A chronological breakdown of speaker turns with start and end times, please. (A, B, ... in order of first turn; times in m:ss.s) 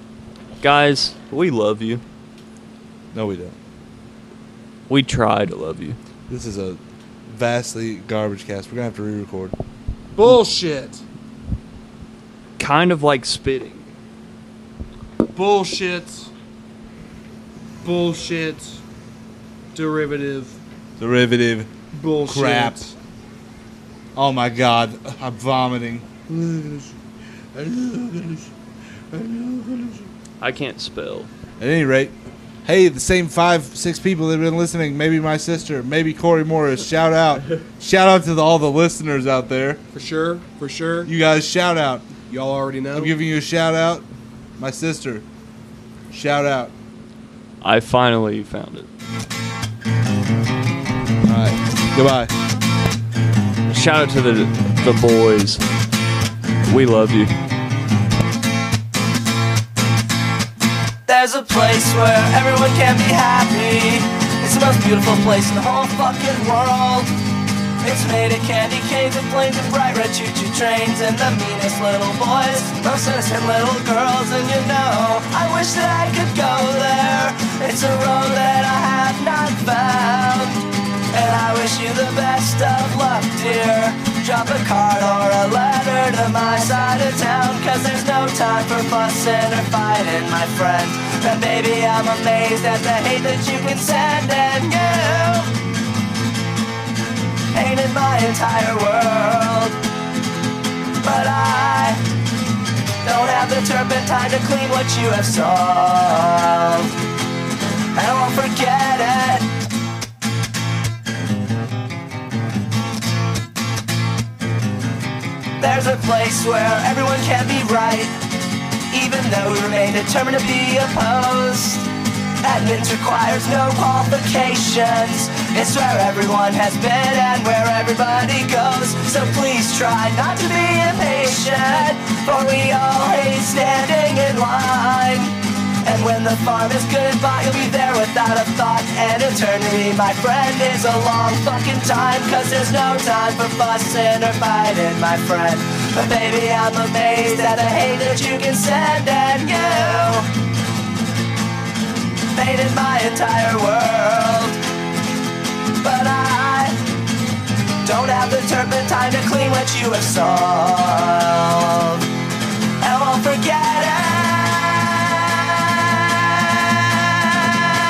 0:00.6-0:02.0 A
0:03.1-0:03.5 B
0:04.9-0:06.0 A
0:06.3-0:09.5 B
0:10.1-0:11.0 C
0:12.6-0:13.9 A
0:15.3-0:16.3 C
0:17.8-0:18.8 C
0:19.7-0:20.6 C
0:21.0-0:21.7 B
0:21.9-0:22.9 C
0:22.2-0:22.9 B
0:24.2-0:26.7 B
0:27.5-0:28.2 B
0:29.1-0:29.9 B
0:30.4-0:31.3 A
0:31.6-0:32.1 B
0:32.6-0:39.8 B
0:39.9-0:41.1 C
0:41.0-0:42.1 B
0:42.3-0:43.1 C
0:42.9-0:44.0 B
0:44.6-0:45.2 B
0:46.1-0:46.7 B
0:47.6-0:48.9 A
0:51.2-0:52.3 B
0:53.7-0:55.6 A
0:56.6-0:57.3 A
1:01.0-1:07.1 D
1:07.8-1:35.5 D
1:37.5-1:39.8 D
1:41.0-1:42.0 D
1:43.0-1:47.0 D
1:47.9-1:49.5 D
1:55.6-1:58.2 D
1:58.9-2:01.9 D
2:02.4-2:30.3 D
2:32.3-2:34.6 D
2:35.8-2:36.8 D
2:37.8-2:42.1 D
2:42.8-2:46.3 D